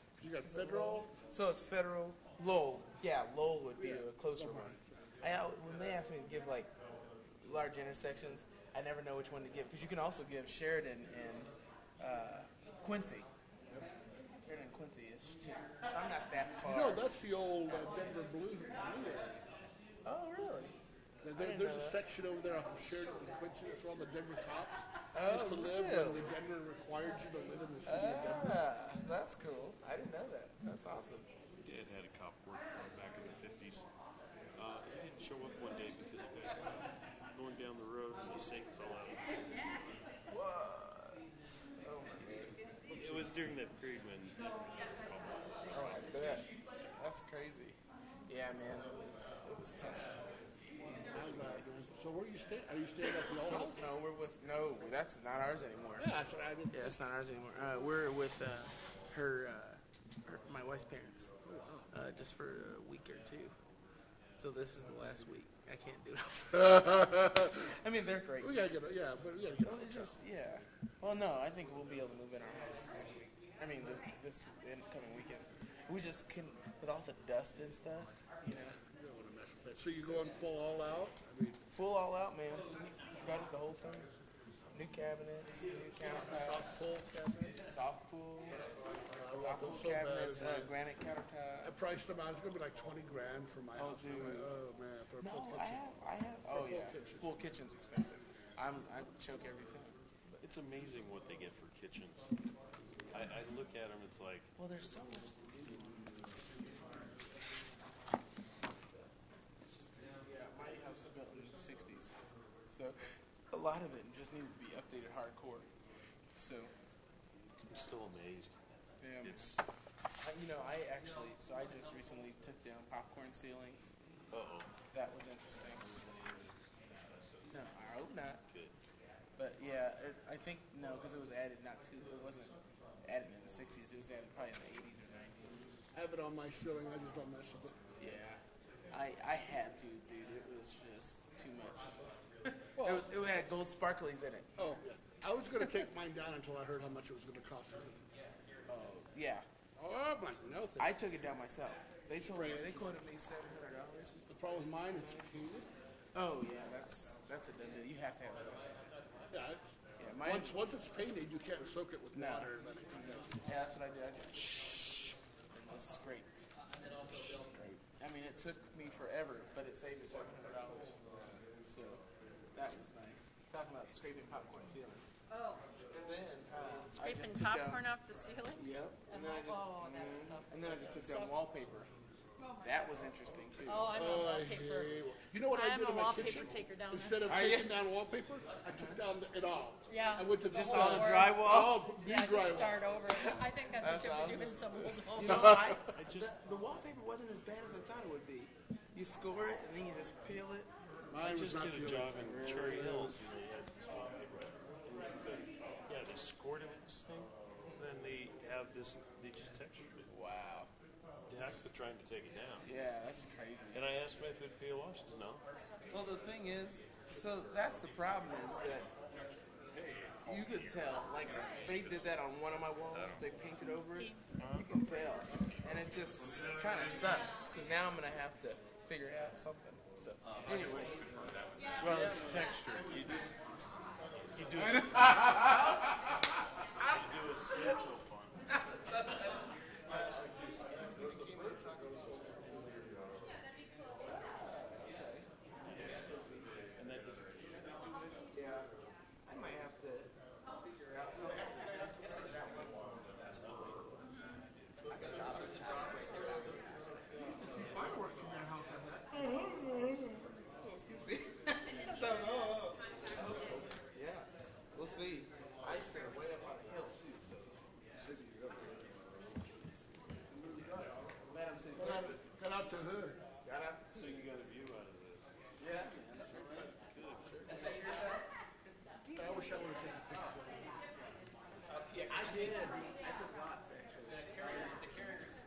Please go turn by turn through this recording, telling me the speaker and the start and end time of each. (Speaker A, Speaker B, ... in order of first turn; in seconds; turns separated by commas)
Speaker A: 0.2-1.1, Speaker B: 0.4-6.7, Speaker A: 3.8-5.0, Speaker B: 7.4-13.3, Speaker B: 14.4-17.1, Speaker A: 16.6-19.4, Speaker B: 20.0-20.8, Speaker A: 21.2-28.6, Speaker B: 21.4-22.0, Speaker B: 25.1-26.3, Speaker B: 27.8-31.3, Speaker C: 31.6-33.9, Speaker C: 34.5-36.6, Speaker C: 37.3-39.3, Speaker B: 40.3-41.3, Speaker B: 41.8-43.2, Speaker C: 42.9-46.5, Speaker B: 45.7-50.3, Speaker B: 50.9-51.7, Speaker A: 51.1-53.8, Speaker B: 53.4-56.1, Speaker A: 56.0-57.0, Speaker B: 56.7-61.3, Speaker A: 61.4-61.9, Speaker B: 61.9-63.5, Speaker B: 64.4-68.6, Speaker A: 66.7-67.6, Speaker A: 68.4-70.1, Speaker B: 69.6-78.8, Speaker A: 78.9-81.6, Speaker B: 80.0-80.4, Speaker B: 81.7-84.1, Speaker B: 84.7-86.8, Speaker A: 86.0-87.6, Speaker B: 87.6-88.6, Speaker A: 89.0-90.7, Speaker B: 89.3-91.7, Speaker A: 91.6-95.9, Speaker B: 93.8-94.5, Speaker B: 95.2-99.9, Speaker A: 96.5-97.3, Speaker C: 100.4-102.3, Speaker C: 103.1-104.5, Speaker B: 104.6-105.8, Speaker B: 109.7-112.1, Speaker B: 112.7-113.0, Speaker B: 113.5-115.7, Speaker B: 116.4-116.7, Speaker C: 117.7-118.5, Speaker B: 119.0-119.5, Speaker C: 119.2-119.7, Speaker B: 120.2-123.9, Speaker C: 124.3-124.7, Speaker B: 124.9-125.9, Speaker B: 127.5-128.4, Speaker C: 128.5-128.7, Speaker B: 129.4-135.6, Speaker A: 135.9-137.8, Speaker B: 138.0-144.5, Speaker A: 142.8-143.1, Speaker A: 144.6-148.0, Speaker B: 148.7-149.5, Speaker A: 149.8-150.9, Speaker B: 150.8-154.2, Speaker A: 152.2-152.9, Speaker A: 154.3-155.7, Speaker B: 156.2-158.6, Speaker A: 159.3-163.3, Speaker B: 160.0-160.6, Speaker B: 162.1-166.5, Speaker B: 167.1-171.0, Speaker B: 171.6-172.0, Speaker B: 172.5-175.1, Speaker B: 175.9-177.9, Speaker D: 176.9-181.3, Speaker B: 178.5-181.9, Speaker B: 182.6-183.9, Speaker D: 183.7-184.9, Speaker A: 183.9-193.2, Speaker D: 185.5-187.4, Speaker B: 187.2-187.7, Speaker B: 188.7-189.0, Speaker D: 189.9-191.4, Speaker B: 190.5-191.9, Speaker D: 192.0-195.6, Speaker B: 193.8-194.6, Speaker B: 195.1-200.7, Speaker A: 195.3-195.6, Speaker C: 195.9-196.4, Speaker A: 201.1-203.2, Speaker C: 201.2-210.1, Speaker B: 210.1-210.7, Speaker C: 211.3-212.7, Speaker B: 212.7-213.8, Speaker C: 213.7-215.4, Speaker B: 215.9-218.9, Speaker C: 219.7-221.0, Speaker B: 220.2-231.0, Speaker C: 222.9-223.2, Speaker C: 224.4-224.7, Speaker C: 231.8-233.4, Speaker C: 234.3-235.7, Speaker B: 234.8-236.2, Speaker B: 236.8-237.8, Speaker C: 236.8-238.4, Speaker B: 238.5-239.2, Speaker B: 240.9-241.6, Speaker A: 241.6-242.7, Speaker B: 244.0-245.3, Speaker B: 245.8-246.5, Speaker C: 246.8-248.1, Speaker B: 248.3-248.7, Speaker B: 249.3-253.9, Speaker B: 254.8-256.7, Speaker A: 257.1-259.1, Speaker B: 259.1-268.8, Speaker A: 268.0-268.5, Speaker A: 270.3-271.1, Speaker B: 271.3-272.2, Speaker A: 271.8-273.2, Speaker B: 273.4-273.9, Speaker C: 273.9-275.2, Speaker B: 275.6-276.7, Speaker C: 276.2-277.6, Speaker B: 277.2-278.2, Speaker A: 279.1-280.8, Speaker B: 281.9-284.9